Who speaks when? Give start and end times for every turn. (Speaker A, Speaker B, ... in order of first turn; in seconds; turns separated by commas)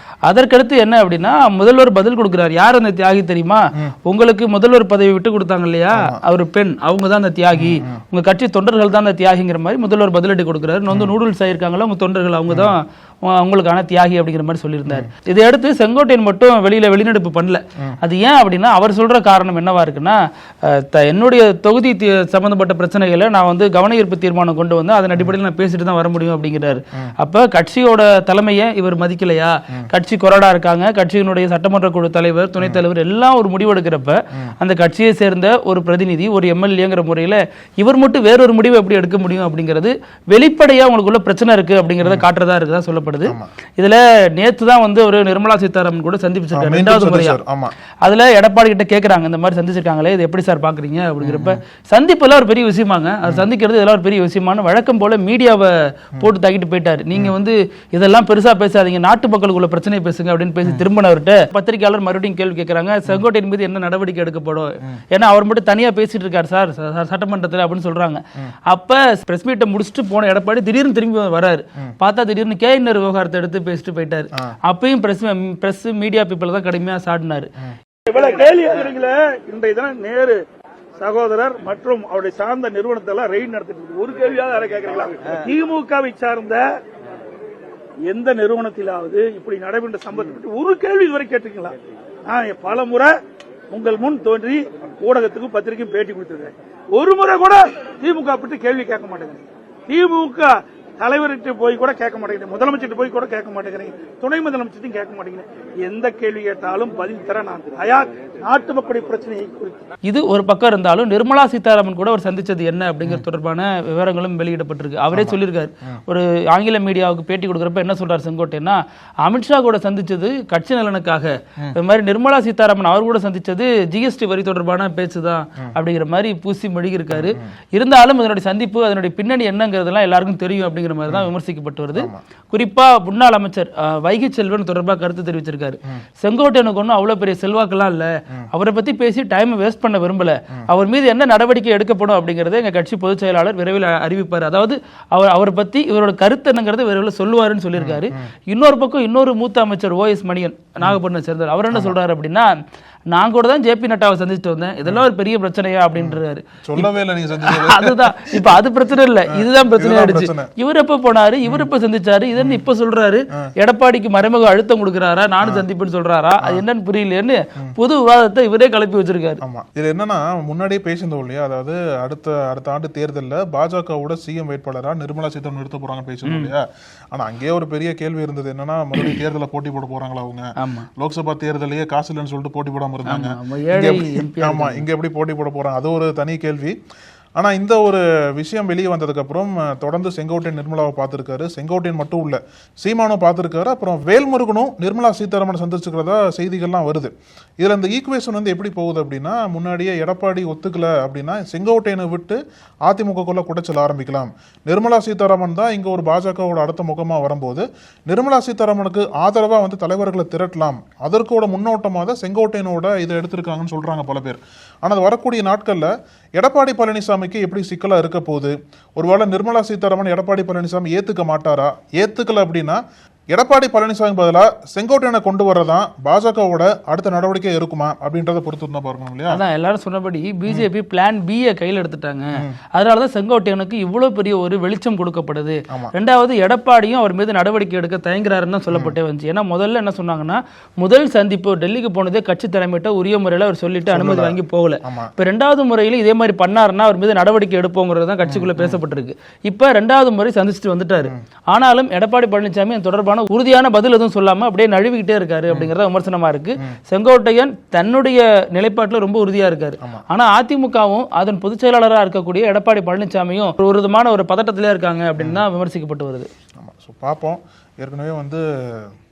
Speaker A: 0.3-47.4, Speaker B: 7.5-8.0, Speaker B: 10.9-11.2, Speaker B: 12.5-12.8, Speaker B: 42.0-42.3, Speaker B: 46.5-47.7, Speaker A: 48.0-77.5, Speaker B: 51.2-51.6, Speaker C: 78.1-80.4, Speaker C: 81.0-86.6, Speaker C: 88.1-91.7, Speaker C: 92.3-93.1, Speaker C: 93.7-100.5, Speaker C: 101.0-109.7, Speaker A: 110.0-152.5, Speaker B: 115.1-116.0, Speaker B: 127.1-127.5, Speaker B: 131.9-132.2, Speaker B: 147.8-148.3, Speaker B: 151.7-152.0, Speaker A: 153.1-156.9, Speaker B: 155.9-158.6, Speaker A: 157.4-169.4, Speaker B: 159.3-160.5, Speaker B: 162.4-162.6, Speaker B: 165.4-165.7, Speaker B: 169.4-186.8, Speaker A: 176.3-176.5, Speaker A: 180.6-180.9, Speaker A: 183.1-184.9, Speaker B: 187.4-222.8, Speaker B: 223.3-229.4, Speaker A: 229.3-266.3, Speaker B: 243.9-245.1, Speaker B: 248.2-248.8, Speaker B: 265.2-265.4, Speaker B: 266.6-268.9